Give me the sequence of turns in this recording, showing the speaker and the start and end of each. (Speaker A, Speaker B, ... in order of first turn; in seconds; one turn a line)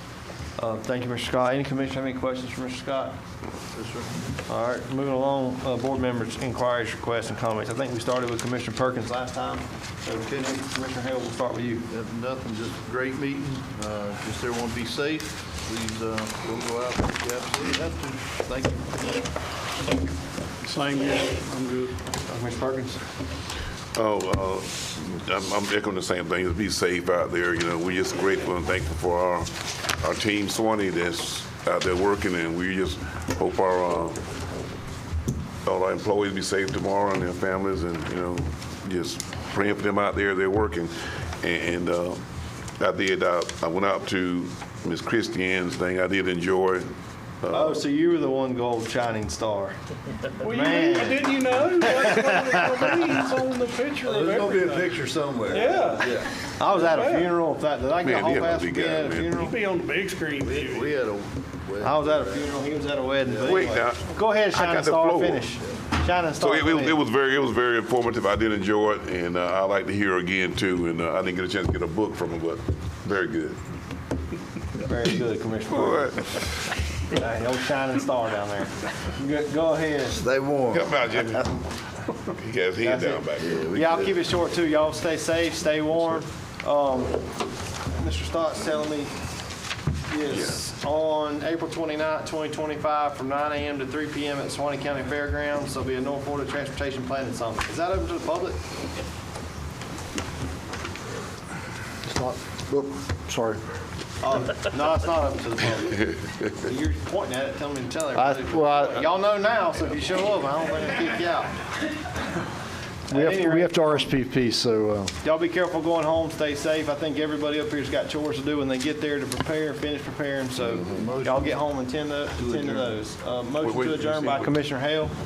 Speaker A: 0.6-3.1
Speaker B: 3.7-4.3
Speaker A: 4.5-11.8
Speaker B: 11.9-19.0
Speaker C: 20.6-21.9
Speaker A: 22.2-23.0
Speaker D: 23.9-34.2
Speaker D: 35.6-42.2
Speaker D: 42.8-46.9
Speaker D: 47.4-47.8
Speaker A: 47.5-49.8
Speaker C: 50.4-55.0
Speaker A: 50.4-52.4
Speaker B: 54.0-56.3
Speaker C: 55.5-57.3
Speaker A: 56.6-59.6
Speaker D: 58.0-59.4
Speaker C: 59.4-60.9
Speaker B: 60.4-62.5
Speaker A: 61.8-67.0
Speaker B: 63.2-63.7
Speaker D: 63.4-65.5
Speaker D: 66.4-73.6
Speaker A: 74.8-76.2
Speaker D: 75.7-76.7
Speaker A: 77.1-80.2
Speaker B: 80.3-80.8
Speaker D: 80.7-81.5
Speaker D: 82.2-83.7
Speaker A: 82.8-87.3
Speaker B: 83.4-84.2
Speaker A: 87.9-89.1
Speaker A: 90.1-98.6
Speaker E: 102.0-103.6
Speaker A: 104.2-111.5
Speaker E: 108.2-109.0
Speaker A: 113.1-114.1
Speaker E: 113.1-115.1
Speaker A: 115.2-125.1
Speaker B: 120.7-121.6
Speaker B: 122.4-122.9
Speaker D: 123.6-124.5